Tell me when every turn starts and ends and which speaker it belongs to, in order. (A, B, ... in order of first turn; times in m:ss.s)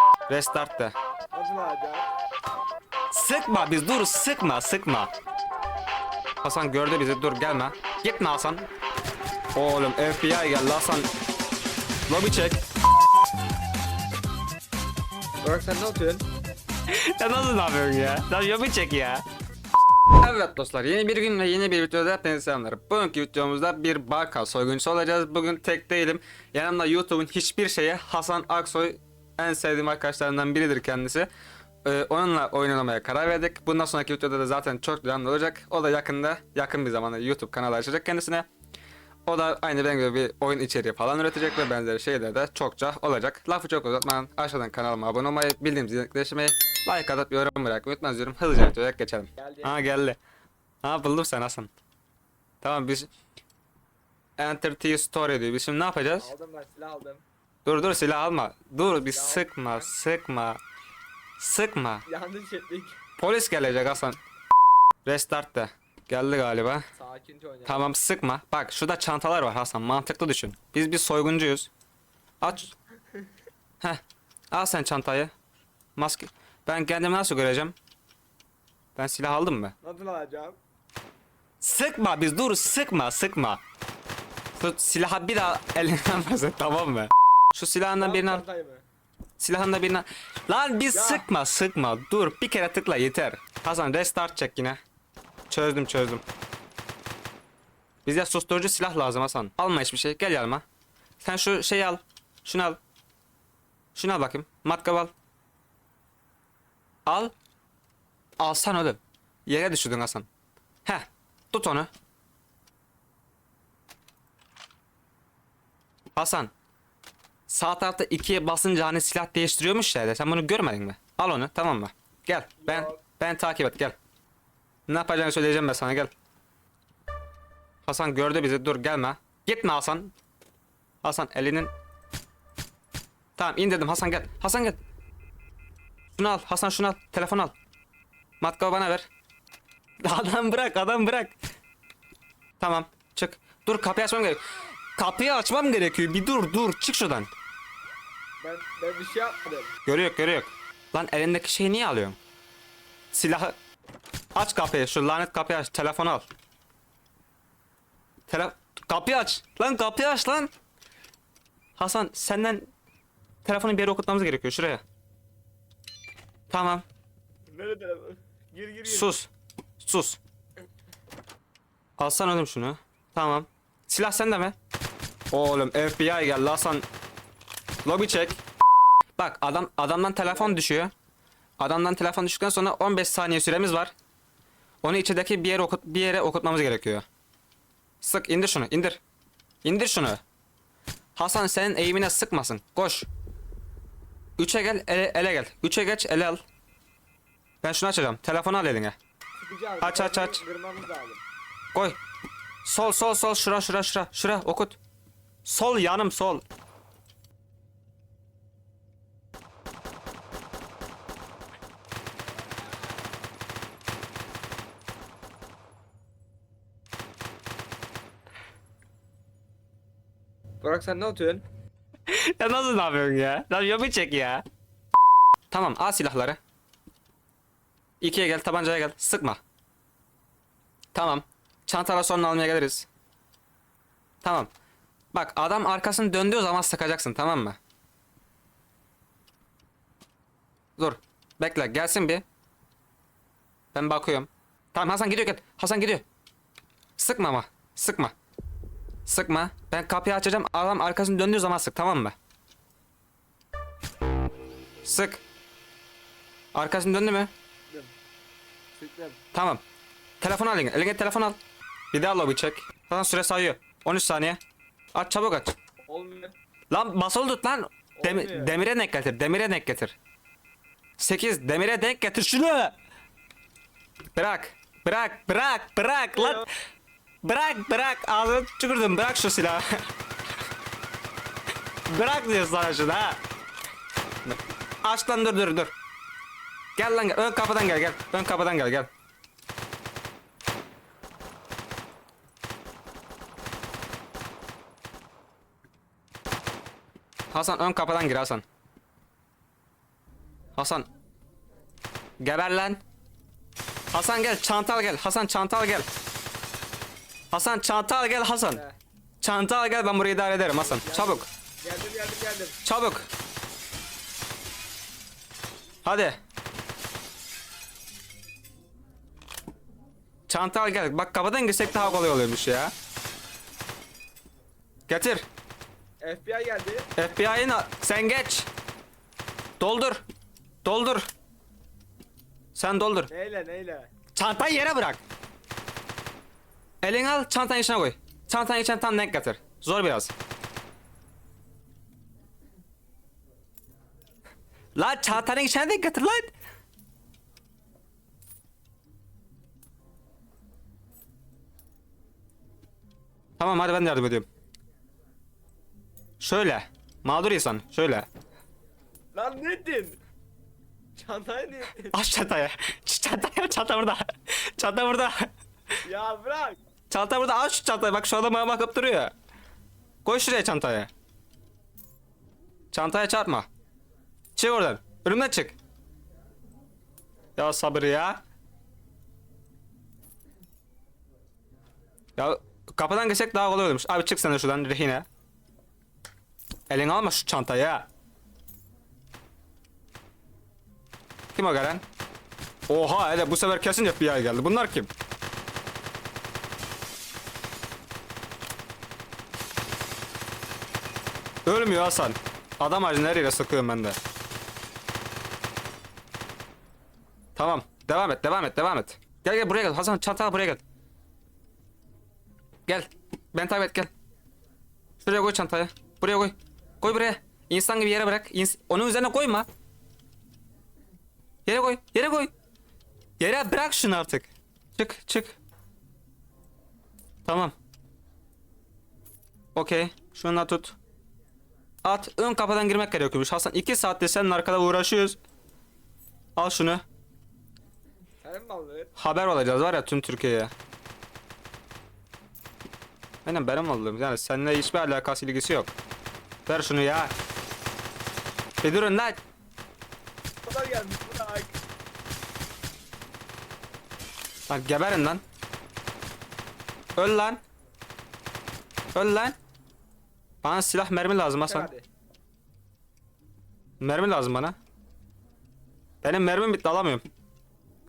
0:00.3-0:00.9 A
0:01.3-0:02.1 B
0:03.1-0:05.1 A
0:06.4-0:08.7 A
0:09.5-0:11.1 A
0:12.1-0:12.6 A
0:15.4-0:16.2 B
0:16.9-0:19.2 A
0:20.1-0:31.3 A
0:31.8-0:38.4 A
0:39.2-0:50.2 A
0:49.4-0:49.8 B
0:50.8-0:51.7 A
0:52.6-0:53.1 A
0:54.4-0:56.3 A
0:56.2-0:57.2 B
0:57.6-1:00.6 A
0:59.1-0:59.9 B
1:01.4-1:02.0 A
1:02.1-1:03.0 B
1:03.2-1:04.2 A
1:05.0-1:06.9 A
1:07.0-1:07.9 B
1:07.6-1:11.7 A
1:12.4-1:12.7 A
1:14.5-1:15.3 A
1:16.0-1:17.7 A
1:19.0-1:19.7 A
1:19.8-1:20.6 B
1:21.6-1:23.6 A
1:24.6-1:28.4 A
1:28.0-1:28.8 B
1:29.4-1:34.8 A
1:30.9-1:31.2 B
1:35.5-1:36.2 A
1:38.0-1:40.6 A
1:41.2-1:42.8 A
1:44.0-1:45.1 A
1:47.0-1:47.3 A
1:48.4-1:50.3 A
1:50.8-1:51.9 A
1:56.2-1:56.5 A
1:57.5-2:04.0 A
2:02.6-2:03.0 B
2:04.9-2:06.1 A
2:07.8-2:10.1 A
2:11.0-2:11.7 A
2:13.4-2:14.8 A
2:16.1-2:17.5 A
2:18.4-2:19.1 A
2:20.0-2:21.4 A
2:22.6-2:24.4 A
2:25.0-2:27.3 A
2:28.4-2:29.7 B
2:29.8-2:32.2 A
2:33.1-2:33.6 A
2:34.3-2:36.2 A
2:38.3-2:40.5 A
2:41.8-2:42.7 A
2:43.4-2:44.8 A
2:46.5-2:46.8 A
2:47.5-2:49.1 B
2:48.8-2:50.2 A
2:52.0-2:54.5 A
2:55.3-2:56.8 A
2:57.8-2:58.4 A
2:59.2-3:00.9 A
3:01.6-3:03.9 A
3:04.8-3:07.0 A
3:08.0-3:09.0 A
3:09.6-3:10.2 A
3:11.2-3:13.1 A
3:14.4-3:16.4 A
3:17.6-3:19.0 A
3:19.4-3:21.2 B
3:19.8-3:20.4 A
3:22.6-3:24.8 A
3:25.4-3:26.4 A
3:40.6-3:41.4 B
3:42.1-3:44.4 A
3:45.5-3:46.4 A
3:48.0-3:49.4 A
3:50.9-3:52.9 A
3:54.2-3:54.5 A
3:55.1-3:57.6 A
4:00.8-4:02.2 A
4:03.7-4:06.0 A
4:07.0-4:08.1 A
4:09.0-4:12.1 A
4:14.8-4:15.2 A
4:16.5-4:17.3 A
4:18.8-4:19.2 B
4:19.3-4:19.6 A
4:20.2-4:21.4 A
4:21.9-4:24.4 A
4:24.9-4:25.5 A
4:25.9-4:26.3 B
4:26.7-4:30.0 A
4:28.0-4:28.6 B
4:31.0-4:32.7 A
4:34.2-4:36.4 A
4:36.2-4:36.4 B
4:37.2-4:39.8 A
4:41.9-4:43.2 A
4:44.3-4:45.7 A
4:46.8-4:48.9 A
4:57.3-4:58.4 A
5:00.6-5:00.9 A
5:02.2-5:02.8 A
5:03.9-5:05.9 A
5:07.3-5:08.6 A
5:09.2-5:11.3 A
5:10.5-5:12.6 B
5:12.6-5:13.1 A
5:15.8-5:16.2 A
5:20.3-5:22.7 A
5:21.7-5:22.0 B
5:24.9-5:25.3 A
5:26.0-5:26.9 B
5:27.0-5:28.5 A
5:29.6-5:30.0 A
5:30.6-5:31.1 A
5:32.5-5:33.1 A
5:33.1-5:33.9 B
5:34.1-5:35.0 A
5:36.8-5:40.1 A
5:44.8-5:46.3 A
5:53.4-5:54.3 A
5:56.2-5:58.1 A
5:59.1-6:00.0 B
6:01.0-6:02.0 B
6:01.9-6:05.3 A
6:05.8-6:06.6 B
6:06.9-6:09.1 A
6:10.0-6:10.9 A
6:12.7-6:13.5 A
6:14.4-6:15.6 A
6:17.4-6:18.2 A
6:22.2-6:25.0 A
6:26.7-6:27.8 A
6:31.3-6:31.8 A
6:32.7-6:34.9 A
6:41.4-6:44.0 A
6:47.4-6:50.6 A
6:52.6-6:53.9 A
6:55.0-6:59.5 A
7:01.4-7:02.3 A
7:03.2-7:05.4 A
7:07.2-7:07.5 A
7:09.5-7:10.8 A
7:11.8-7:15.2 A
7:16.4-7:16.8 A
7:18.2-7:18.9 B
7:19.0-7:20.5 A
7:23.2-7:25.7 A
7:26.5-7:27.1 A
7:28.6-7:29.2 A
7:30.4-7:31.6 B
7:34.5-7:35.2 A
7:37.0-7:37.4 A
7:38.9-7:39.4 A
7:40.4-7:41.7 A
7:41.4-7:41.8 B
7:43.8-7:44.6 A
7:46.0-7:47.0 A